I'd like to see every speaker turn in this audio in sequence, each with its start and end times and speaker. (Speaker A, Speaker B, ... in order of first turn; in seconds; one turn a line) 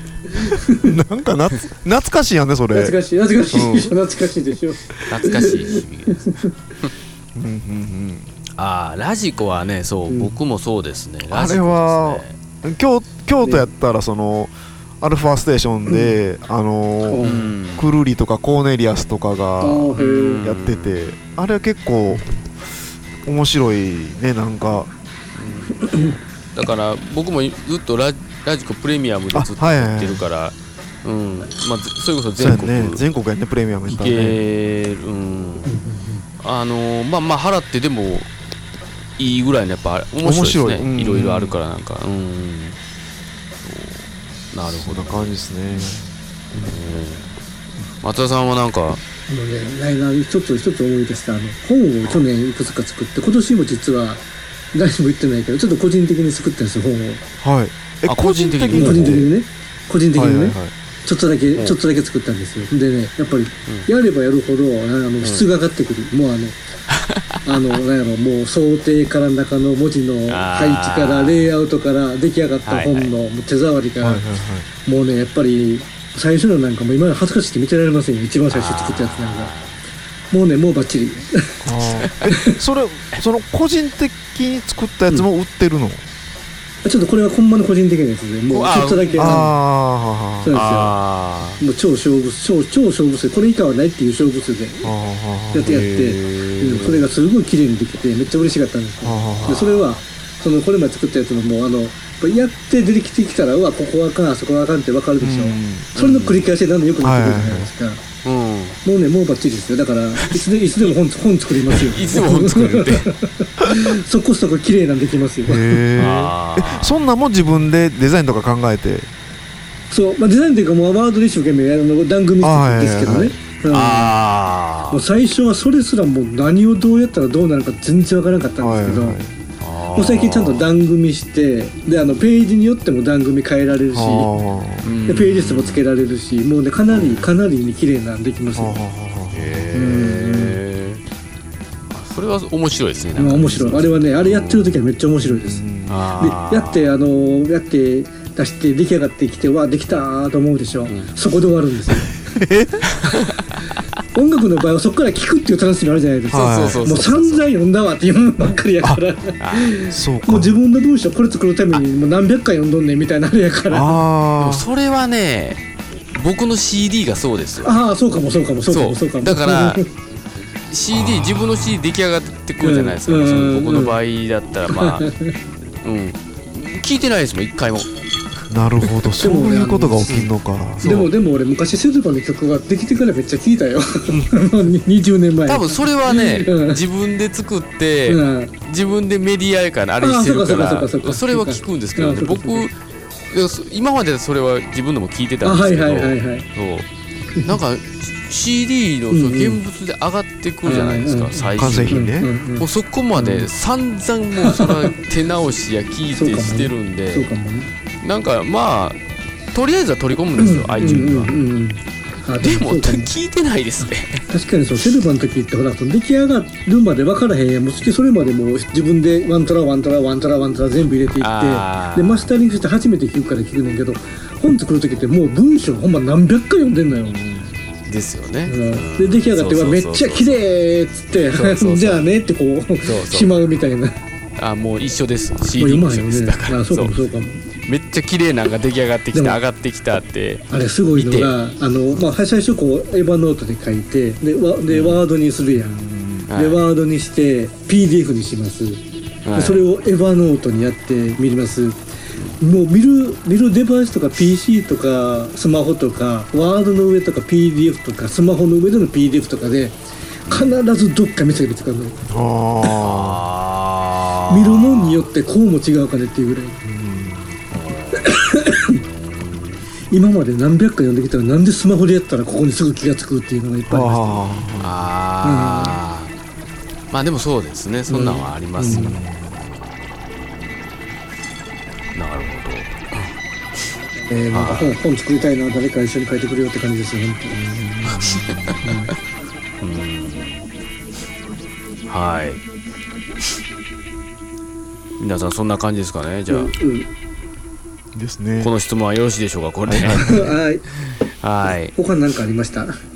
Speaker A: 0.4-0.9
Speaker B: 0.5-3.0
Speaker A: 2.7-6.5
Speaker B: 3.5-3.9
Speaker C: 5.1-6.9
Speaker B: 7.3-8.3
Speaker C: 8.6-12.4
Speaker A: 10.1-10.3
Speaker B: 11.3-17.2
Speaker A: 13.4-13.7
Speaker A: 15.9-16.2
Speaker A: 17.1-17.5
Speaker C: 17.2-17.9
Speaker B: 17.8-19.9
Speaker A: 19.6-20.5
Speaker C: 20.0-21.0
Speaker B: 20.4-22.3
Speaker B: 23.2-24.9
Speaker C: 25.4-33.0
Speaker A: 25.8-26.1
Speaker B: 29.3-30.3
Speaker B: 32.4-34.4
Speaker C: 33.9-35.8
Speaker A: 35.7-36.2
Speaker C: 36.4-38.3
Speaker C: 39.2-42.8
Speaker B: 40.2-41.6
Speaker C: 43.6-45.3
Speaker B: 44.7-46.1
Speaker C: 46.6-47.3
Speaker C: 48.0-49.0
Speaker A: 49.3-57.2
Speaker B: 57.4-59.3
Speaker C: 58.1-59.2
Speaker A: 58.7-66.6
Speaker B: 60.1-60.7
Speaker C: 66.9-67.5
Speaker A: 67.5-74.2
Speaker C: 70.3-71.5
Speaker C: 72.7-73.1
Speaker B: 74.0-74.7
Speaker A: 74.8-79.5
Speaker C: 78.5-79.7
Speaker A: 80.3-81.6
Speaker B: 81.6-86.1
Speaker A: 82.3-82.6
Speaker A: 86.8-89.5
Speaker C: 88.5-89.4
Speaker B: 89.2-90.6
Speaker A: 90.4-91.0
Speaker C: 90.5-91.6
Speaker A: 91.6-94.9
Speaker B: 94.8-95.8
Speaker A: 95.5-108.0
Speaker C: 95.6-97.0
Speaker B: 99.0-99.7
Speaker C: 99.4-100.0
Speaker B: 105.2-105.9
Speaker C: 106.0-106.5
Speaker B: 107.0-107.7
Speaker C: 108.2-108.8
Speaker A: 108.8-115.8
Speaker C: 111.7-113.1
Speaker B: 115.5-119.1
Speaker C: 116.0-117.0
Speaker A: 119.9-124.2
Speaker B: 122.4-123.3
Speaker C: 123.7-125.0
Speaker A: 124.9-129.2
Speaker B: 128.6-129.3
Speaker C: 129.6-130.7
Speaker A: 129.9-134.3
Speaker B: 133.9-134.9
Speaker C: 134.8-135.8
Speaker A: 135.1-138.8
Speaker C: 136.9-137.3
Speaker B: 138.6-139.7
Speaker C: 139.3-141.0
Speaker A: 139.7-140.6
Speaker C: 141.9-144.8
Speaker A: 143.2-145.6
Speaker B: 145.2-146.1
Speaker C: 145.9-147.0
Speaker A: 146.2-152.1
Speaker B: 152.2-153.4
Speaker C: 152.9-153.4
Speaker A: 154.1-164.0
Speaker B: 156.3-156.8
Speaker C: 156.3-157.5
Speaker C: 159.4-159.8
Speaker B: 159.9-160.6
Speaker B: 163.7-164.7
Speaker C: 164.4-165.6
Speaker C: 166.1-167.8
Speaker A: 167.6-169.9
Speaker C: 168.7-169.8
Speaker C: 170.7-175.1
Speaker B: 170.9-171.8
Speaker A: 172.6-174.0
Speaker A: 174.7-175.3
Speaker C: 175.8-177.9
Speaker B: 178.5-180.9
Speaker A: 179.2-180.2
Speaker C: 180.1-181.1
Speaker A: 180.8-186.8
Speaker C: 185.5-192.7
Speaker A: 188.1-188.5
Speaker A: 190.0-192.7
Speaker C: 193.3-196.9
Speaker A: 195.4-196.5
Speaker C: 197.4-207.3
Speaker A: 199.1-199.6
Speaker A: 200.7-203.5
Speaker B: 201.6-202.3
Speaker A: 204.4-204.9
Speaker A: 206.2-207.7
Speaker C: 208.0-209.0
Speaker C: 209.5-211.4
Speaker A: 210.4-213.1
Speaker C: 212.4-214.2
Speaker A: 214.3-227.2
Speaker C: 221.2-222.3
Speaker B: 227.1-227.5
Speaker C: 227.9-230.4
Speaker A: 228.5-233.9
Speaker C: 231.3-232.1
Speaker C: 232.8-233.3
Speaker C: 234.4-236.9
Speaker A: 235.6-237.4
Speaker C: 237.6-241.4
Speaker A: 239.1-239.4
Speaker A: 240.5-248.8
Speaker C: 244.7-245.0
Speaker B: 245.6-246.3
Speaker C: 246.3-246.6
Speaker C: 249.2-249.6
Speaker A: 249.3-251.8
Speaker A: 252.4-262.0
Speaker C: 260.3-260.6
Speaker B: 262.1-263.2
Speaker C: 262.6-265.1
Speaker A: 264.3-266.6
Speaker B: 266.6-267.4
Speaker C: 267.5-268.1
Speaker A: 267.9-268.8
Speaker C: 268.7-269.6
Speaker A: 269.9-274.2
Speaker B: 273.7-274.7
Speaker C: 274.6-276.1
Speaker A: 275.2-275.8
Speaker C: 276.9-278.9
Speaker A: 277.9-279.0
Speaker B: 278.7-279.4
Speaker C: 281.9-283.1
Speaker A: 284.0-287.4
Speaker C: 284.3-284.8
Speaker B: 287.3-288.6
Speaker C: 287.9-288.6
Speaker A: 288.6-288.9
Speaker C: 289.6-290.5
Speaker C: 291.9-292.4
Speaker C: 295.0-296.5
Speaker A: 296.3-296.9
Speaker B: 297.9-298.5
Speaker C: 298.4-301.7
Speaker B: 299.7-300.1
Speaker A: 300.0-300.6
Speaker A: 301.7-302.8